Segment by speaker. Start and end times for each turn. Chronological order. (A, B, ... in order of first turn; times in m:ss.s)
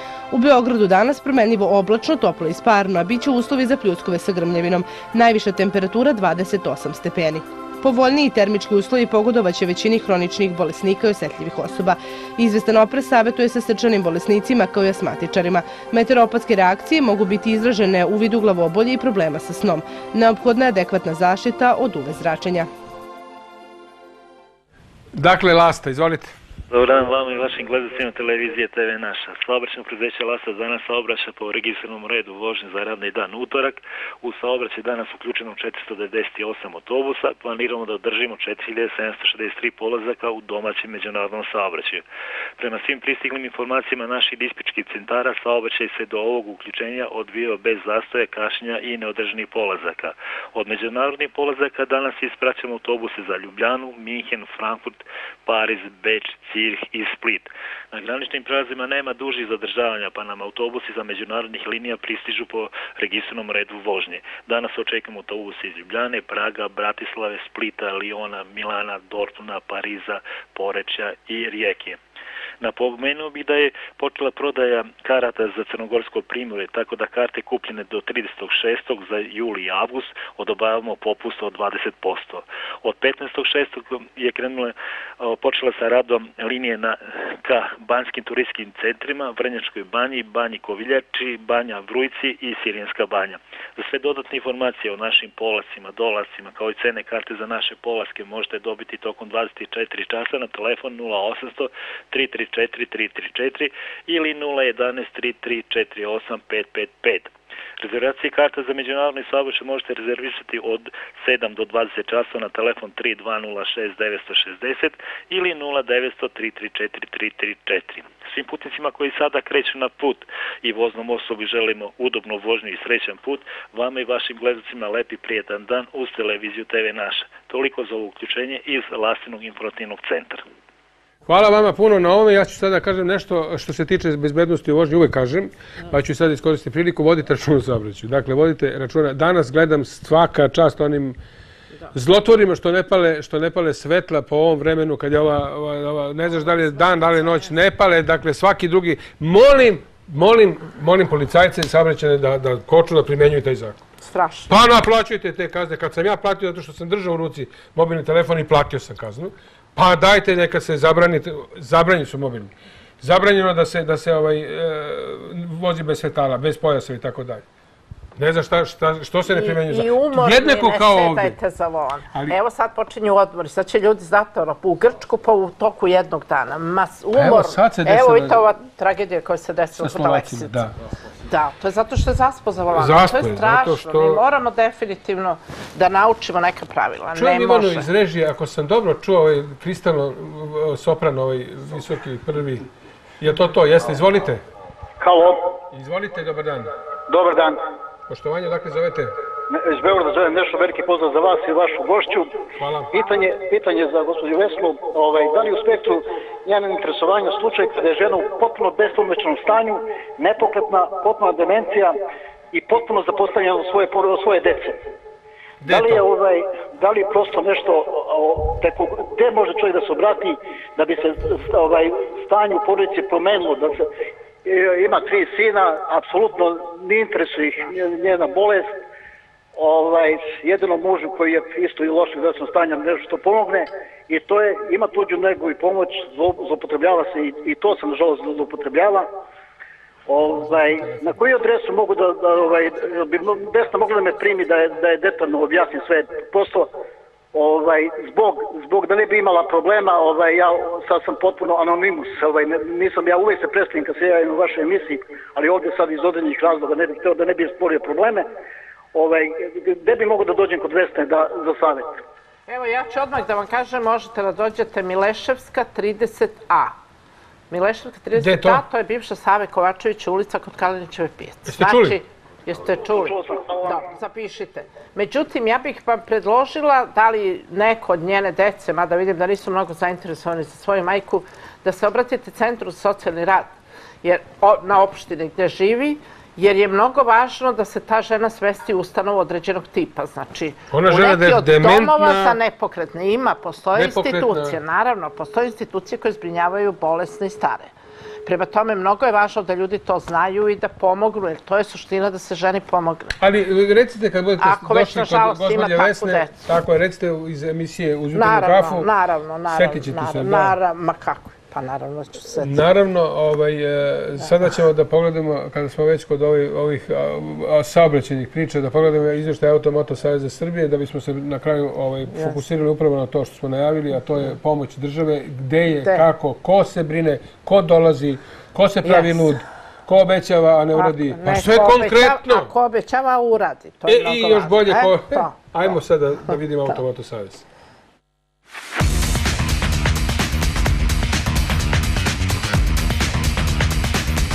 0:00.3-0:22.7 A
0:25.1-0:26.3 B
0:26.7-0:42.0 C
0:42.6-1:12.0 C
1:12.6-2:10.4 C
2:11.3-2:21.2 B
2:21.9-2:33.8 B
2:34.0-2:34.6 D
2:34.5-2:47.4 B
2:48.2-2:51.4 B
2:49.3-3:00.6 D
2:57.1-2:58.4 B
2:59.8-3:00.7 B
3:01.3-3:07.9 D
3:02.7-3:04.2 B
3:07.2-3:12.7 B
3:13.2-3:14.4 B
3:15.0-3:15.5 E
3:15.7-3:16.7 B
3:17.1-3:17.6 E
3:18.1-3:19.2 B
3:19.5-3:22.3 E
3:22.6-3:22.9 B
3:22.9-3:32.0 E
3:32.5-3:34.8 E
3:35.6-3:36.1 B
3:35.6-3:43.8 E
3:44.4-3:48.7 E
3:49.6-3:59.1 E
4:00.1-4:06.7 E
4:00.4-4:01.2 B
4:07.3-4:18.3 E
4:18.9-4:21.9 E
4:22.5-4:26.8 D
4:27.5-4:57.7 D
4:28.1-4:28.6 B
4:31.5-4:32.0 B
4:33.0-4:33.8 E
4:50.7-4:52.4 B
4:53.8-4:54.6 B
4:58.2-5:03.2 D
5:03.2-5:08.9 B
5:04.4-5:06.4 D
5:08.1-5:12.6 D
5:09.5-5:10.6 B
5:12.4-5:32.5 B
5:22.1-5:22.4 D
5:25.8-5:26.1 D
5:28.8-5:29.3 D
5:30.8-5:35.8 D
5:33.9-5:37.4 B